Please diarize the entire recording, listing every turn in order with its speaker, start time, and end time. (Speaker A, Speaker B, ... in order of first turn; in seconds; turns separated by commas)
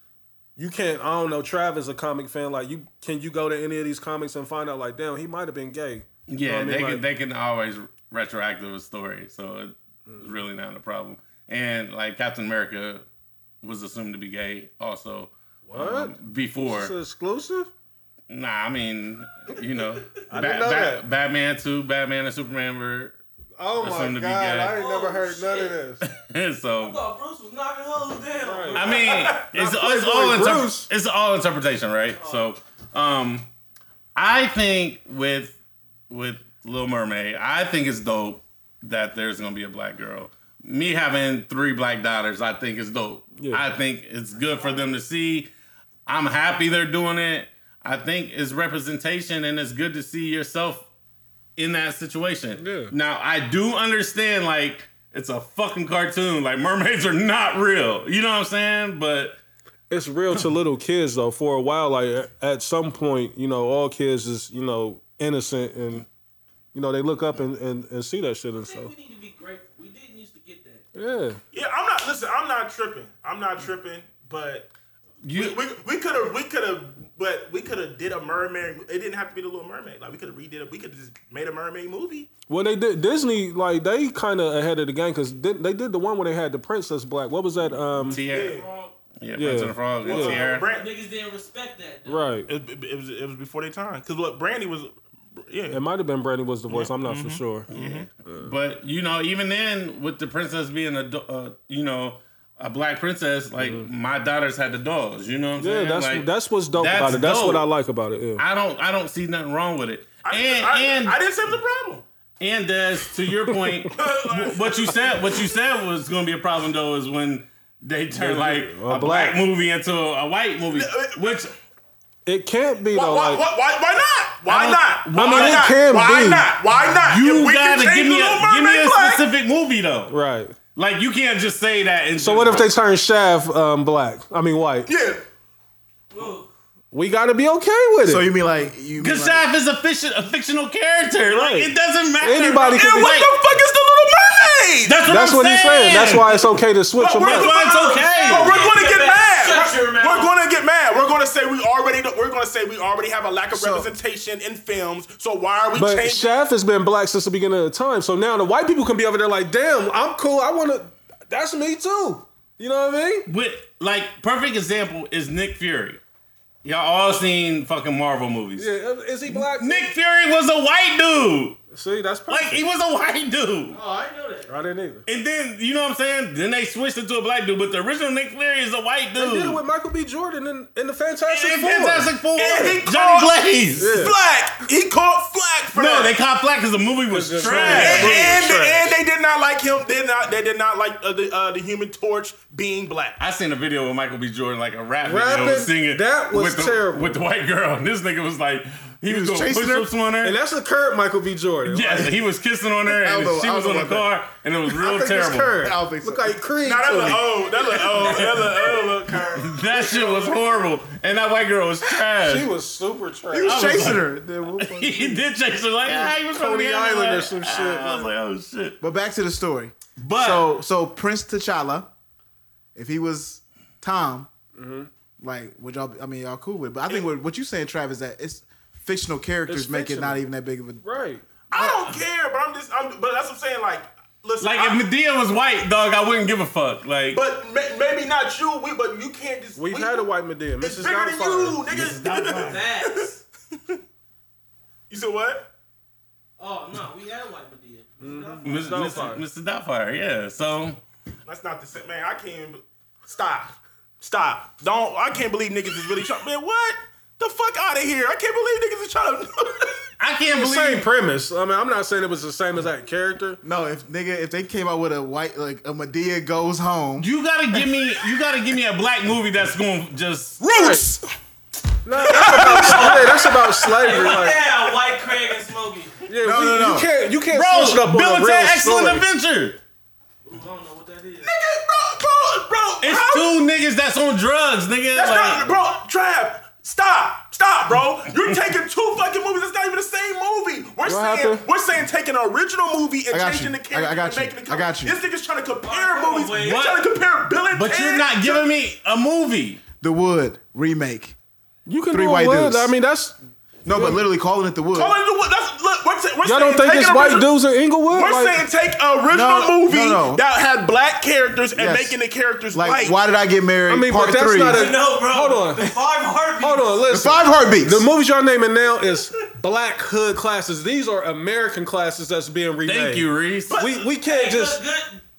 Speaker A: 0.6-7.0, Speaker B: 6.3-13.1, Speaker A: 10.1-10.3, Speaker B: 13.6-16.9, Speaker A: 15.7-17.7, Speaker B: 18.3-23.2, Speaker C: 19.9-20.2, Speaker A: 20.3-21.0, Speaker A: 23.6-26.0, Speaker B: 23.8-24.8, Speaker C: 24.7-25.8, Speaker B: 26.0-27.0, Speaker C: 26.8-29.1, Speaker A: 28.4-30.9, Speaker B: 28.7-33.5, Speaker D: 29.1-29.4, Speaker C: 32.1-32.5, Speaker B: 34.1-35.6, Speaker B: 36.1-45.5, Speaker A: 43.4-43.6, Speaker C: 44.4-44.9, Speaker B: 46.0-50.9, Speaker B: 51.6-59.4, Speaker A: 52.5-52.9, Speaker A: 59.9-66.1, Speaker A: 66.7-68.9, Speaker C: 68.6-70.8, Speaker A: 70.9-71.4, Speaker D: 71.5-74.7, Speaker B: 75.2-75.6, Speaker D: 75.3-82.3, Speaker A: 82.5-88.2, Speaker B: 88.1-88.6, Speaker D: 88.3-88.7, Speaker C: 88.3-89.0, Speaker B: 89.2-90.6, Speaker A: 89.4-90.4, Speaker D: 90.0-90.9, Speaker C: 90.2-92.3, Speaker A: 92.0-92.5, Speaker D: 92.5-95.8, Speaker A: 95.7-97.7, Speaker D: 96.7-98.1, Speaker B: 97.7-107.7, Speaker A: 98.2-98.5, Speaker A: 103.6-103.9, Speaker A: 105.6-108.4, Speaker B: 108.3-111.2, Speaker D: 110.2-112.0, Speaker B: 112.4-121.5, Speaker A: 113.5-113.9, Speaker D: 114.0-115.2, Speaker A: 118.1-119.4, Speaker D: 120.7-121.5, Speaker A: 122.2-123.5, Speaker D: 122.9-129.2, Speaker B: 124.5-125.7, Speaker A: 125.1-126.5, Speaker B: 127.0-130.1, Speaker A: 130.1-130.6, Speaker B: 130.7-132.7, Speaker A: 132.2-134.9, Speaker D: 134.8-135.2, Speaker C: 136.1-136.5, Speaker A: 136.9-138.3, Speaker E: 138.0-139.5, Speaker B: 139.0-143.3, Speaker A: 141.2-143.2, Speaker D: 142.7-145.0, Speaker B: 144.8-146.4, Speaker A: 145.1-147.5, Speaker D: 147.0-156.3, Speaker B: 147.2-148.7, Speaker C: 147.4-150.3, Speaker E: 153.6-153.8, Speaker A: 155.7-163.3, Speaker B: 163.3-166.0, Speaker B: 166.6-168.7, Speaker A: 168.6-169.9, Speaker B: 169.2-171.6, Speaker A: 171.7-172.6, Speaker B: 172.3-173.8, Speaker C: 173.7-174.5, Speaker A: 174.5-175.1, Speaker B: 175.1-179.6, Speaker A: 179.2-182.1, Speaker B: 181.3-184.0, Speaker D: 182.4-186.1, Speaker A: 183.8-184.2, Speaker B: 185.7-188.4, Speaker A: 187.1-188.9, Speaker D: 187.4-193.2, Speaker B: 193.2-200.4, Speaker A: 195.0-197.2, Speaker E: 199.1-199.9, Speaker A: 200.2-202.2, Speaker B: 201.7-205.7, Speaker E: 202.9-204.1, Speaker E: 204.8-206.5, Speaker A: 204.8-207.4, Speaker D: 206.6-210.6, Speaker B: 208.0-208.5, Speaker B: 209.3-212.5, Speaker A: 212.2-214.0, Speaker E: 213.3-215.3, Speaker B: 213.4-218.8, Speaker A: 215.8-218.1, Speaker E: 218.8-221.9, Speaker B: 220.0-220.5, Speaker E: 222.7-224.3, Speaker A: 224.5-224.9, Speaker E: 225.2-230.8, Speaker A: 229.4-230.2, Speaker A: 230.8-231.2, Speaker D: 231.5-234.8, Speaker B: 234.4-237.2, Speaker D: 237.1-240.1, Speaker A: 239.6-241.6, Speaker D: 240.6-243.8, Speaker B: 241.7-242.6, Speaker C: 242.4-243.2, Speaker D: 244.9-245.5, Speaker C: 246.4-249.1, Speaker A: 248.0-249.2, Speaker B: 248.4-250.8, Speaker D: 251.2-259.8, Speaker B: 260.0-260.9, Speaker A: 260.3-263.4, Speaker E: 263.4-267.1, Speaker B: 267.0-270.4, Speaker D: 270.4-271.1, Speaker A: 270.5-270.9, Speaker A: 271.8-274.4, Speaker D: 272.0-274.0, Speaker C: 272.2-276.0, Speaker A: 276.1-279.1, Speaker E: 276.2-276.9, Speaker B: 277.3-279.6, Speaker C: 280.2-281.3, Speaker D: 281.2-283.4, Speaker B: 282.8-285.5, Speaker D: 284.9-298.5, Speaker A: 290.8-291.4, Speaker E: 293.1-295.0, Speaker C: 295.6-296.6, Speaker B: 296.4-296.9, Speaker B: 297.5-299.6, Speaker E: 299.8-301.1, Speaker A: 301.6-303.2, Speaker E: 301.9-302.7, Speaker E: 303.6-305.0, Speaker A: 303.7-304.0, Speaker D: 304.7-307.3, Speaker A: 306.2-308.4, Speaker D: 307.9-313.0, Speaker E: 309.1-310.2, Speaker E: 311.6-311.9, Speaker E: 312.5-314.6, Speaker A: 313.7-315.7, Speaker C: 314.5-316.9, Speaker A: 316.4-324.6, Speaker E: 316.9-317.9, Speaker B: 322.6-323.6, Speaker D: 323.5-323.9, Speaker C: 324.0-325.0